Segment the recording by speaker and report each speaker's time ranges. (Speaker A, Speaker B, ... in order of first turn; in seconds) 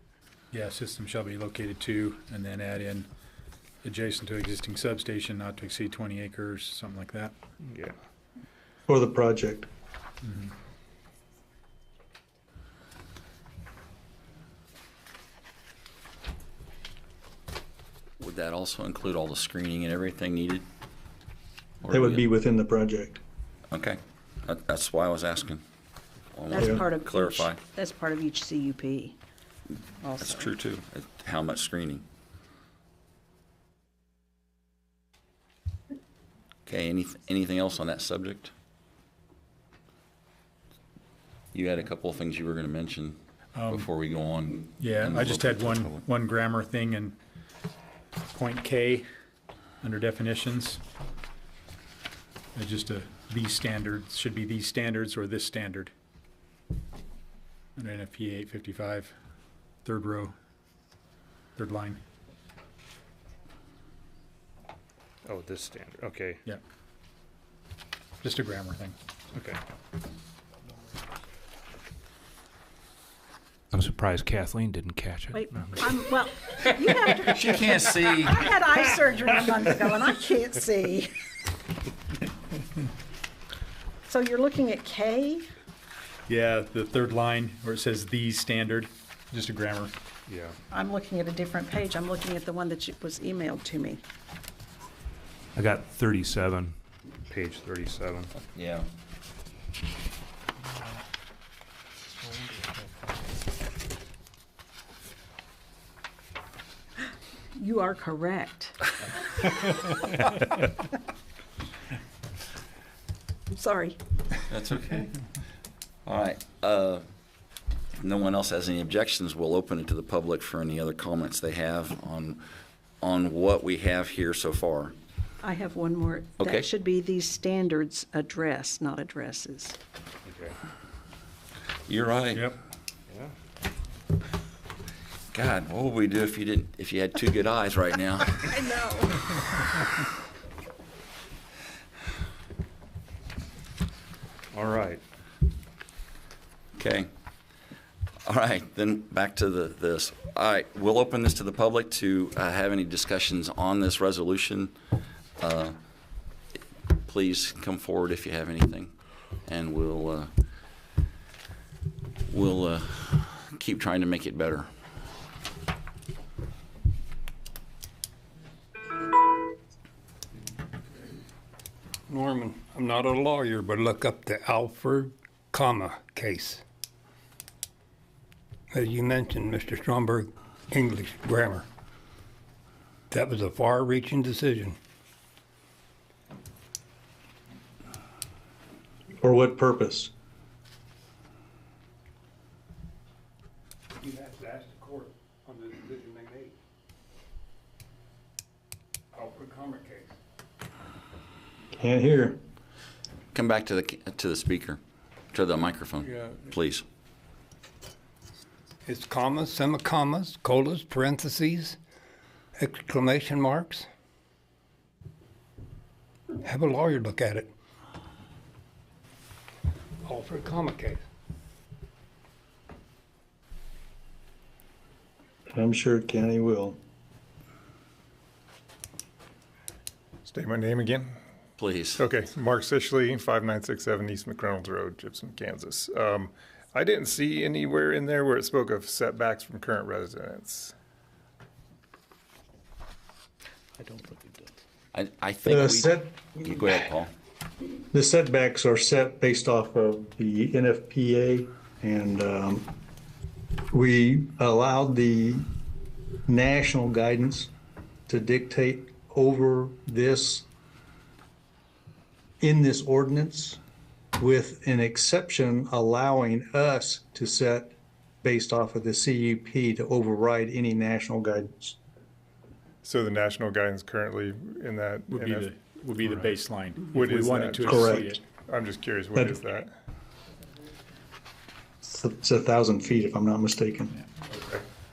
Speaker A: 0.5-3.1, 3.8-7.3, 10.2-10.5, 43.6-43.9, 44.8-47.2, 48.3-49.1, 49.8-50.8, 52.5-55.9, 57.8-59.1, 59.9-60.3, 61.6-62.0, 68.2-69.0, 86.3-89.9, 275.1-278.2
Speaker B: 7.7-8.0, 65.3-66.4, 69.3-69.6, 90.3-90.6, 95.5-96.8, 97.3-98.3, 130.2-130.6, 133.1-133.3, 144.5-145.0
Speaker C: 8.9-9.7, 21.9-23.2, 26.6-26.9, 189.2-190.1, 201.7-202.4, 225.5-226.8, 245.5-246.7, 247.9-252.7, 253.7-255.5, 256.3-257.5, 258.1-260.5, 262.4-263.6, 264.2-271.8, 277.6-278.1, 281.8-283.9
Speaker D: 18.2-20.7, 21.8-22.2, 23.7-25.6, 26.3-27.6, 30.2-32.0, 36.7-38.5, 41.5-43.2, 43.7-46.0, 77.1-78.5, 98.5-98.9, 114.5-115.1, 116.1-117.0, 118.0-122.5, 123.0-125.0, 126.4-126.7, 131.9-132.5, 135.3-138.4, 146.8-147.1, 148.2-154.7, 155.4-155.8, 157.1-160.3, 162.3-164.7, 203.3-204.8, 205.3-206.8, 231.6-232.0, 244.9-247.1
Speaker E: 26.5-29.2, 30.0-30.6, 75.3-81.1, 84.1-85.5, 90.7-94.0, 107.5-108.8, 113.5-114.0, 125.4-129.8, 138.4-139.2
Speaker F: 73.7-75.8
Speaker G: 172.1-176.6, 178.7-181.7, 183.1-184.8, 194.0-196.6, 199.1-200.2, 208.9-211.8, 212.6-213.9, 216.4-217.5, 220.1-221.0
Speaker H: 230.3-231.2, 231.9-240.7, 272.8-276.4, 276.9-279.7, 284.3-284.6